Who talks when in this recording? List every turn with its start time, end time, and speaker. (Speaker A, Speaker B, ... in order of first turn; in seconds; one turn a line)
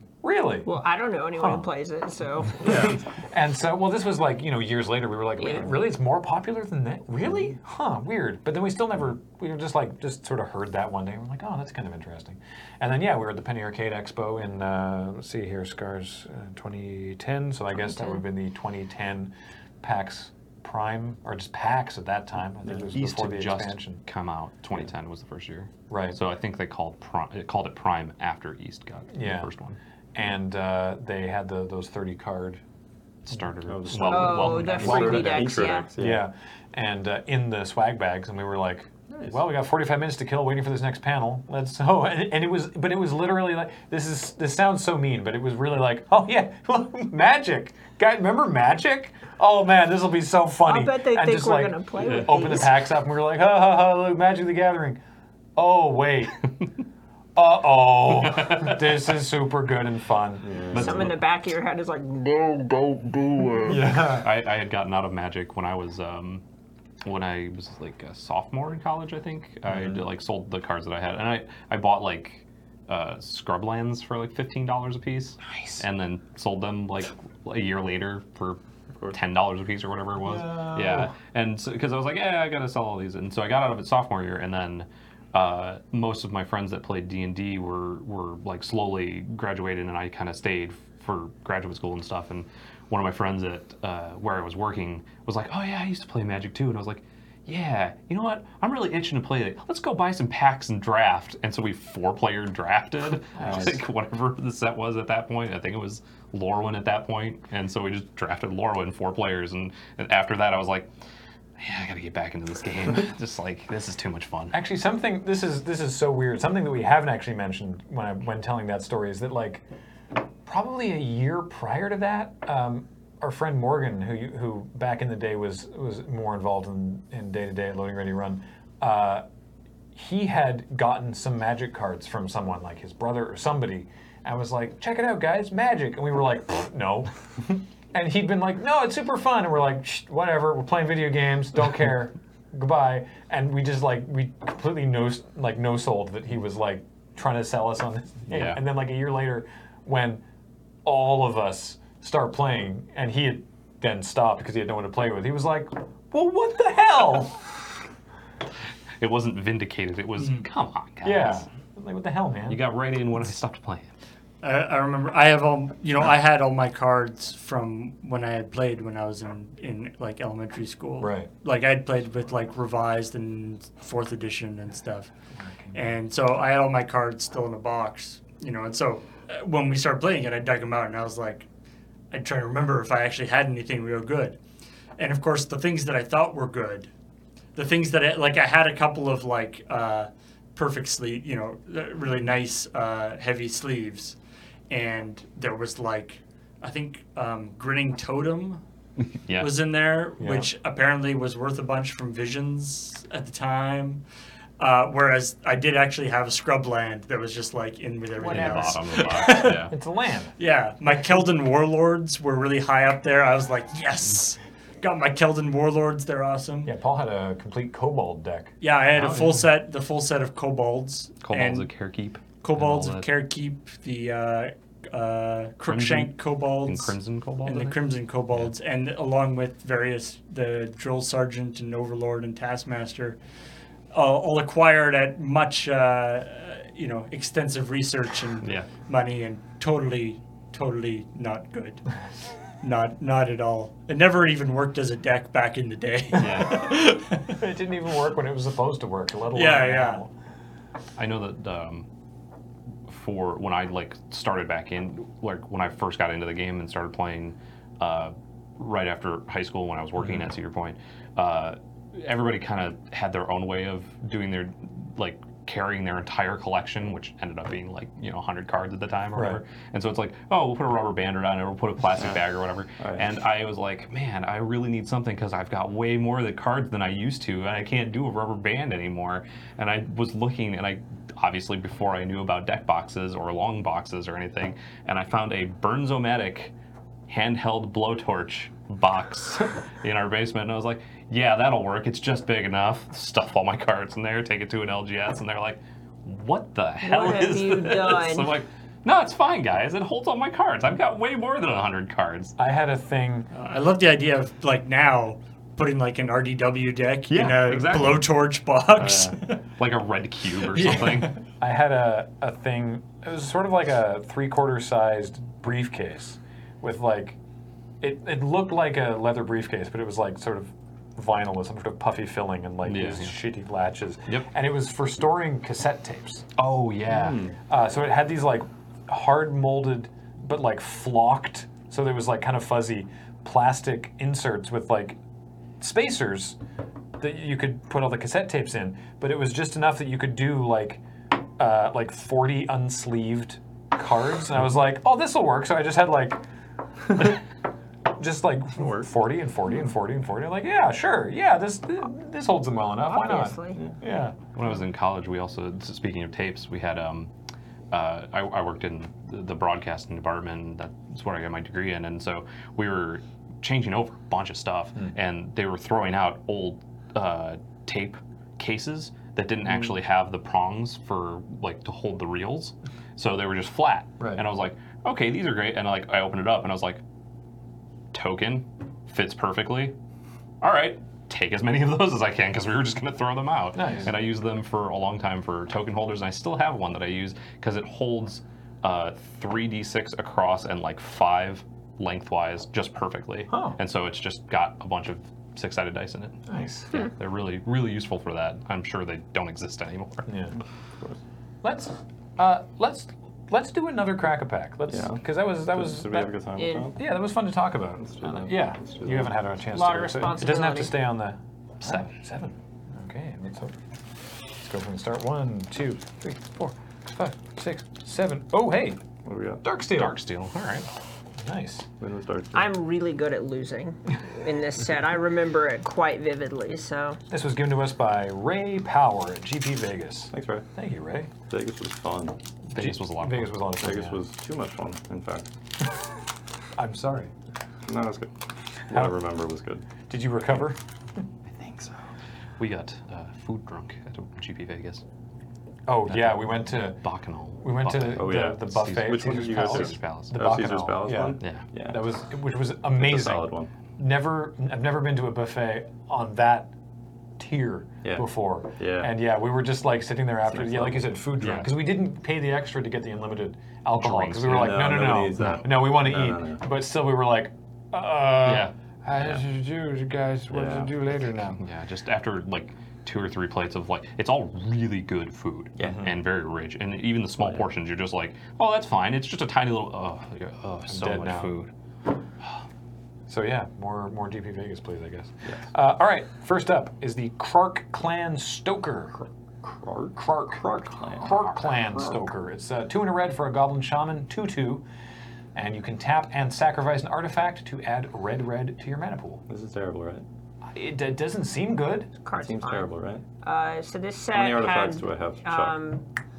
Speaker A: 0.2-0.7
Speaker B: 0.6-2.9
Speaker A: 1.4-1.6
Speaker A: 2.6-24.0
Speaker C: 2.6-3.0
Speaker B: 5.4-5.7
Speaker B: 17.9-18.2
Speaker D: 22.9-29.8
Speaker A: 25.9-26.2
Speaker A: 29.1-29.5
Speaker A: 30.1-32.6
Speaker D: 33.2-35.6
Speaker C: 33.7-36.2
Speaker A: 33.9-55.0
Speaker B: 34.0-35.9
Speaker C: 39.1-39.4
Speaker B: 50.6-52.8
Speaker A: 55.5-56.4
Speaker A: 57.4-61.1
Speaker D: 58.2-58.8
Speaker C: 60.4-61.1
Speaker D: 60.7-61.2
Speaker B: 60.7-63.8
Speaker A: 63.6-64.3
Speaker D: 63.9-66.4
Speaker D: 67.0-78.6
Speaker A: 75.5-75.8
Speaker D: 79.1-110.9
Speaker A: 80.2-81.1
Speaker C: 103.4-103.7
Speaker D: 111.6-114.6
Speaker A: 114.5-119.6
Speaker A: 120.4-129.2
Speaker A: 129.9-150.2
Speaker D: 148.3-148.6
Speaker A: 150.8-157.5
Speaker D: 159.0-161.4
Speaker E: 160.2-160.5
Speaker A: 161.0-162.6
Speaker D: 162.5-163.9
Speaker E: 164.4-175.1
Speaker A: 171.0-171.3
Speaker A: 175.4-175.9
Speaker E: 175.7-181.5
Speaker E: 182.1-184.4
Speaker E: 185.0-186.9
Speaker E: 187.5-194.2
Speaker E: 194.7-198.6
Speaker D: 199.2-199.5
Speaker E: 199.3-204.0
Speaker A: 200.2-200.5
Speaker E: 204.6-209.7
Speaker A: 208.2-208.8
Speaker D: 208.2-209.7
Speaker A: 209.5-210.3
Speaker E: 210.4-216.7
Speaker A: 216.6-219.3
Speaker E: 218.6-221.7
Speaker D: 221.2-223.1
Speaker E: 222.4-233.2
Speaker D: 225.7-227.8
Speaker E: 233.9-241.8
Speaker D: 238.4-238.7
Speaker E: 242.6-247.4
Speaker D: 246.1-246.8
Speaker A: 247.3-250.1
Speaker E: 249.3-250.0
Speaker D: 251.0-251.8
Speaker D: 252.9-286.5
Speaker A: 269.1-269.4
Speaker C: 272.8-273.1
Speaker D: 287.1-302.4
Speaker B: 296.8-298.3
Speaker A: 302.4-303.3
Speaker E: 303.3-309.4
Speaker D: 307.1-308.0
Speaker D: 308.8-311.2
Speaker E: 310.5-311.1
Speaker A: 311.4-317.2
Speaker A: 317.8-326.2
Speaker D: 322.6-323.1
Speaker D: 326.4-327.3
Speaker C: 326.9-327.4
Speaker A: 327.5-335.0
Speaker A: 335.6-336.4
Speaker A: 337.0-346.2
Speaker A: 346.9-347.2
Speaker A: 347.9-354.2
Speaker C: 348.6-348.9
Speaker B: 352.8-353.6
Speaker D: 354.3-357.1
Speaker D: 357.7-376.8
Speaker D: 377.9-379.7
Speaker D: 380.4-400.1
Speaker A: 383.5-383.9
Speaker A: 393.3-393.6
Speaker A: 396.3-396.9
Speaker A: 400.1-400.4
Speaker A: 401.4-406.1
Speaker C: 404.7-406.8
Speaker B: 406.4-406.7
Speaker A: 406.7-413.5
Speaker C: 407.8-409.1
Speaker B: 409.5-410.8
Speaker A: 414.4-418.8
Speaker C: 419.0-419.4
Speaker A: 419.4-420.0
Speaker D: 419.7-420.7
Speaker A: 421.2-421.7
Speaker C: 421.8-422.5
Speaker B: 422.3-427.0
Speaker A: 427.1-431.1
Speaker C: 430.1-430.4
Speaker C: 431.3-432.2
Speaker A: 432.5-434.0
Speaker D: 432.5-433.4
Speaker C: 433.6-435.3
Speaker A: 436.6-437.1
Speaker C: 437.7-438.1
Speaker C: 438.7-439.6
Speaker A: 438.7-439.0
Speaker A: 439.9-440.6
Speaker C: 441.3-441.8
Speaker D: 442.4-444.8
Speaker A: 445.7-446.8
Speaker D: 445.9-450.2
Speaker A: 447.4-456.5
Speaker C: 447.9-451.8
Speaker D: 451.2-451.5
Speaker C: 452.8-453.5
Speaker A: 457.2-471.4
Speaker C: 458.6-458.9
Speaker C: 460.3-460.9
Speaker D: 461.2-461.5
Speaker D: 463.8-464.6
Speaker C: 464.2-466.4
Speaker D: 468.2-469.2
Speaker C: 470.3-470.7
Speaker D: 471.4-481.5
Speaker A: 475.6-476.0
Speaker C: 477.2-477.4
Speaker A: 480.7-481.4
Speaker A: 483.1-489.1
Speaker C: 489.4-491.1
Speaker A: 489.9-494.6
Speaker A: 495.3-499.2
Speaker C: 499.3-500.0
Speaker A: 500.4-501.9
Speaker B: 502.0-505.9
Speaker C: 502.1-503.0
Speaker C: 504.1-505.6